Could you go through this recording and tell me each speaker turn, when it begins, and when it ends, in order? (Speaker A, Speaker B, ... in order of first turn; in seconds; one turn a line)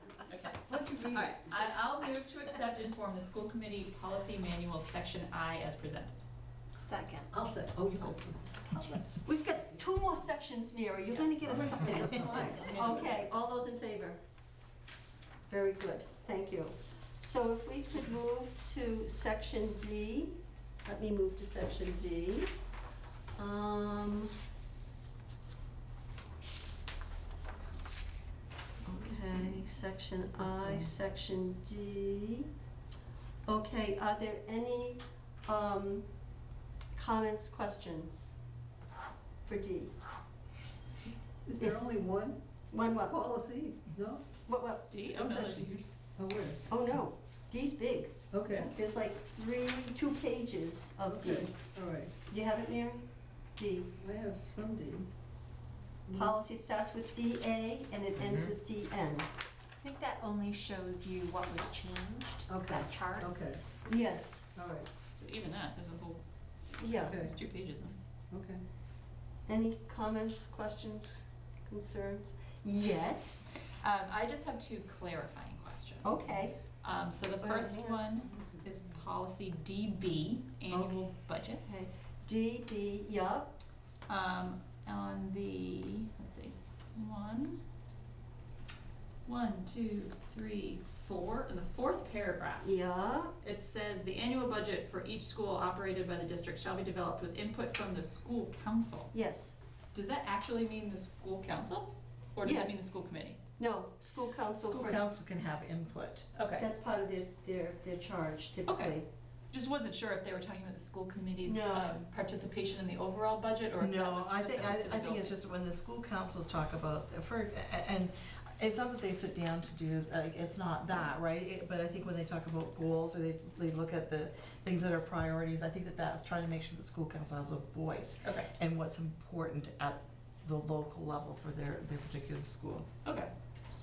Speaker A: 0.3-0.6
Speaker A: 1.1-6.2
Speaker B: 6.8-7.3
Speaker C: 7.3-8.5
Speaker A: 8.7-9.0
Speaker B: 8.7-9.0
Speaker D: 9.2-14.2
Speaker A: 11.1-13.3
Speaker C: 11.5-12.8
Speaker D: 15.5-22.5
Speaker D: 23.4-24.3
Speaker D: 28.9-32.5
Speaker B: 29.1-29.8
Speaker D: 33.5-36.1
Speaker D: 36.9-38.4
Speaker D: 39.5-39.9
Speaker C: 41.0-42.4
Speaker D: 41.6-42.0
Speaker D: 42.7-43.2
Speaker C: 43.1-44.2
Speaker D: 44.5-45.6
Speaker A: 44.9-45.9
Speaker C: 46.2-46.6
Speaker D: 46.7-51.5
Speaker C: 48.3-48.7
Speaker C: 51.0-52.1
Speaker D: 52.2-53.9
Speaker C: 54.0-55.1
Speaker C: 56.1-56.3
Speaker D: 56.1-59.3
Speaker B: 59.8-63.3
Speaker C: 62.5-63.6
Speaker D: 63.8-64.4
Speaker C: 64.5-64.9
Speaker A: 65.2-66.2
Speaker D: 66.8-67.2
Speaker A: 67.0-68.0
Speaker C: 67.0-67.3
Speaker C: 68.3-68.6
Speaker D: 69.5-73.5
Speaker A: 73.6-81.8
Speaker D: 76.0-76.6
Speaker D: 77.4-78.0
Speaker D: 80.7-81.0
Speaker D: 81.6-83.5
Speaker A: 84.1-87.6
Speaker A: 89.2-92.7
Speaker D: 92.6-93.3
Speaker A: 93.4-99.1
Speaker D: 99.1-99.6
Speaker A: 99.9-103.4
Speaker D: 102.4-102.9
Speaker D: 103.6-105.0
Speaker E: 104.5-106.3
Speaker A: 106.3-106.7
Speaker D: 106.6-109.1
Speaker A: 108.7-109.0
Speaker A: 109.5-115.4
Speaker D: 111.4-112.0
Speaker E: 113.8-132.9
Speaker A: 128.2-128.5
Speaker A: 133.0-133.3